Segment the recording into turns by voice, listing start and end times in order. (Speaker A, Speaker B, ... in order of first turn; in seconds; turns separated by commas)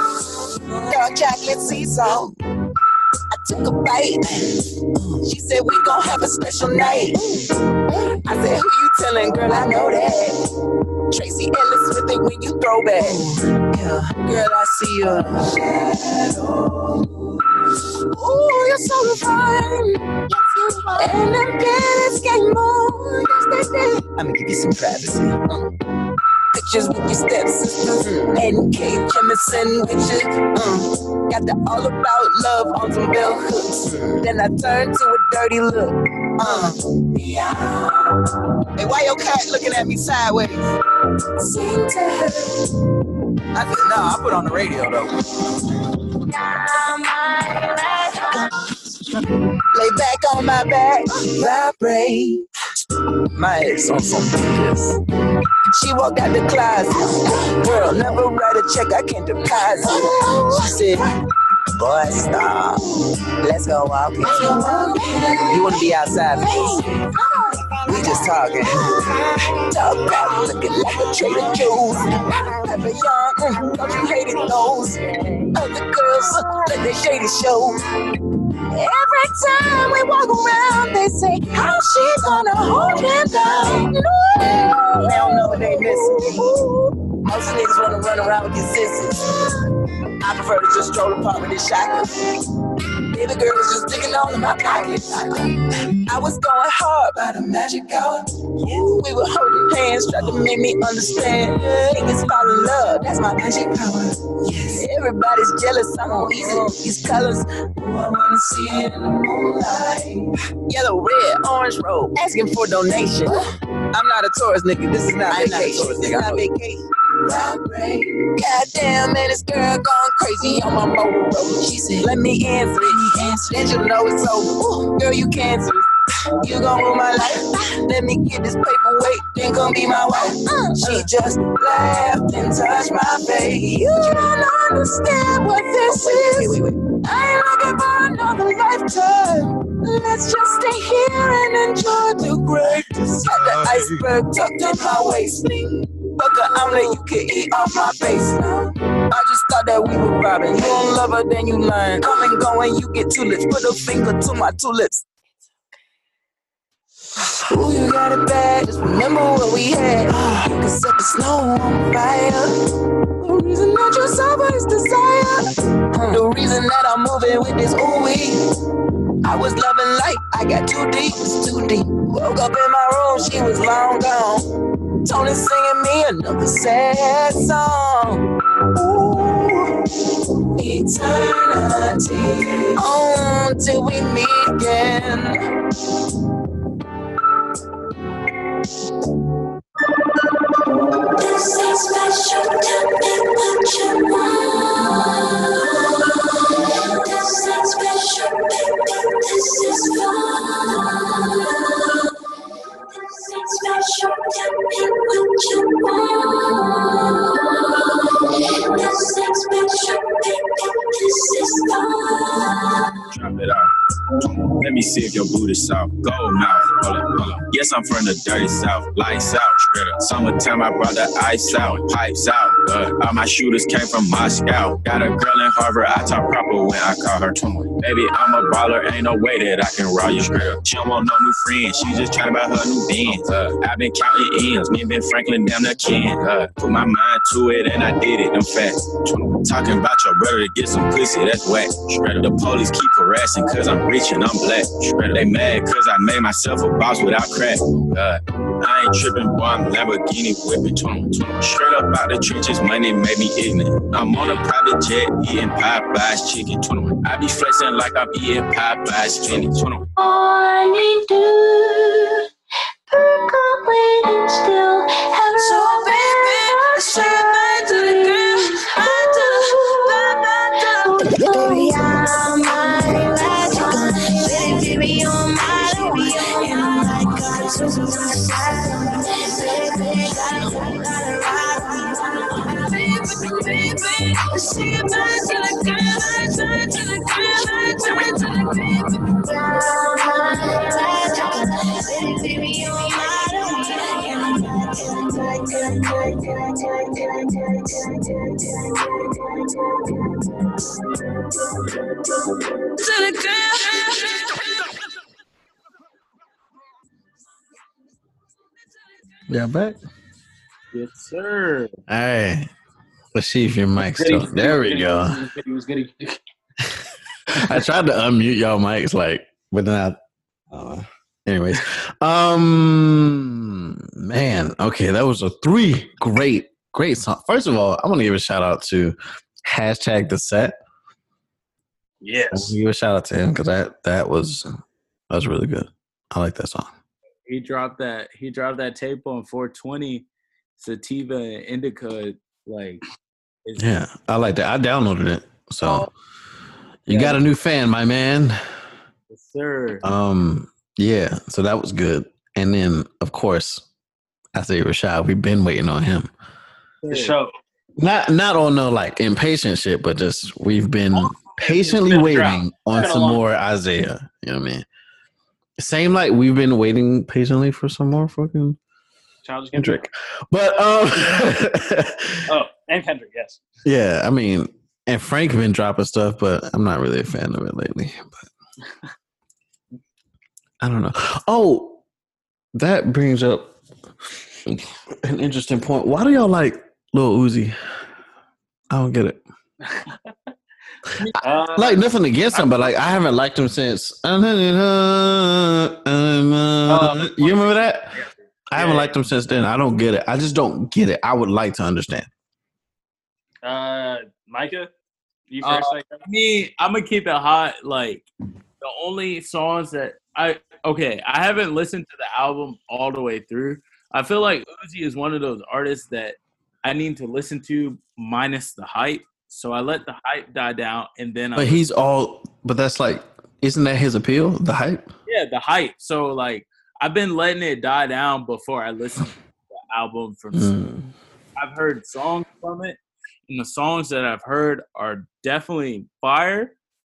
Speaker A: 0.5-2.3, Speaker A: 3.3-4.5, Speaker A: 5.2-7.5, Speaker A: 8.0-10.4, Speaker A: 11.1-16.9, Speaker A: 18.1-24.0, Speaker B: 24.2-25.3, Speaker A: 26.5-37.9, Speaker A: 38.8-40.6, Speaker A: 41.4-42.5, Speaker A: 43.6-44.4, Speaker A: 46.5-48.4, Speaker A: 49.7-52.4, Speaker A: 53.5-54.0, Speaker A: 55.7-61.0, Speaker A: 62.1-62.5, Speaker A: 63.4-68.8, Speaker B: 65.6-65.9, Speaker A: 69.6-77.8, Speaker A: 78.7-89.4, Speaker A: 90.2-92.2, Speaker A: 93.1-125.9, Speaker B: 115.3-116.5, Speaker A: 126.4-155.0, Speaker A: 157.3-162.5, Speaker A: 163.2-168.4, Speaker A: 169.2-174.5, Speaker A: 175.0-179.7, Speaker A: 180.5-185.4, Speaker C: 191.1-202.1, Speaker C: 202.9-213.0, Speaker D: 213.1-213.7, Speaker D: 214.5-259.9, Speaker C: 259.9-262.2, Speaker C: 262.9-281.3, Speaker A: 265.8-269.4, Speaker A: 270.0-282.0, Speaker C: 282.5-283.9, Speaker A: 282.5-285.8, Speaker C: 284.4-288.6, Speaker A: 286.9-288.8, Speaker A: 289.8-297.3, Speaker C: 291.8-294.4, Speaker A: 302.8-303.4, Speaker C: 303.0-304.1, Speaker E: 309.3-309.8, Speaker F: 310.7-311.8, Speaker E: 311.9-312.5, Speaker E: 313.1-315.2, Speaker G: 313.9-316.2, Speaker E: 317.3-320.0, Speaker E: 320.5-330.6, Speaker G: 332.0-332.6, Speaker E: 332.3-334.5, Speaker E: 335.1-336.7, Speaker F: 337.3-340.1, Speaker F: 340.6-342.8, Speaker F: 343.4-343.7, Speaker E: 343.6-345.9, Speaker F: 345.6-345.9, Speaker E: 346.9-348.4, Speaker F: 346.9-347.2, Speaker F: 349.1-349.8, Speaker E: 349.8-353.6, Speaker E: 354.3-356.1, Speaker F: 356.8-357.1, Speaker G: 356.9-357.3, Speaker E: 357.8-364.6, Speaker F: 360.9-361.7, Speaker G: 361.8-363.2, Speaker E: 365.6-368.6, Speaker G: 369.2-369.8, Speaker E: 369.6-372.3, Speaker G: 372.3-373.4, Speaker E: 373.6-378.2, Speaker E: 380.6-381.8, Speaker E: 382.5-383.5, Speaker E: 384.4-387.6, Speaker E: 388.7-389.2, Speaker G: 389.7-390.1, Speaker G: 391.2-392.7, Speaker E: 391.5-398.0, Speaker G: 396.7-397.7, Speaker E: 398.5-402.1, Speaker G: 398.5-398.9, Speaker G: 403.4-404.7, Speaker G: 405.3-406.0, Speaker F: 405.4-408.1, Speaker F: 408.6-421.6, Speaker E: 421.4-424.9, Speaker F: 425.1-430.6, Speaker E: 430.3-430.9, Speaker F: 431.4-436.5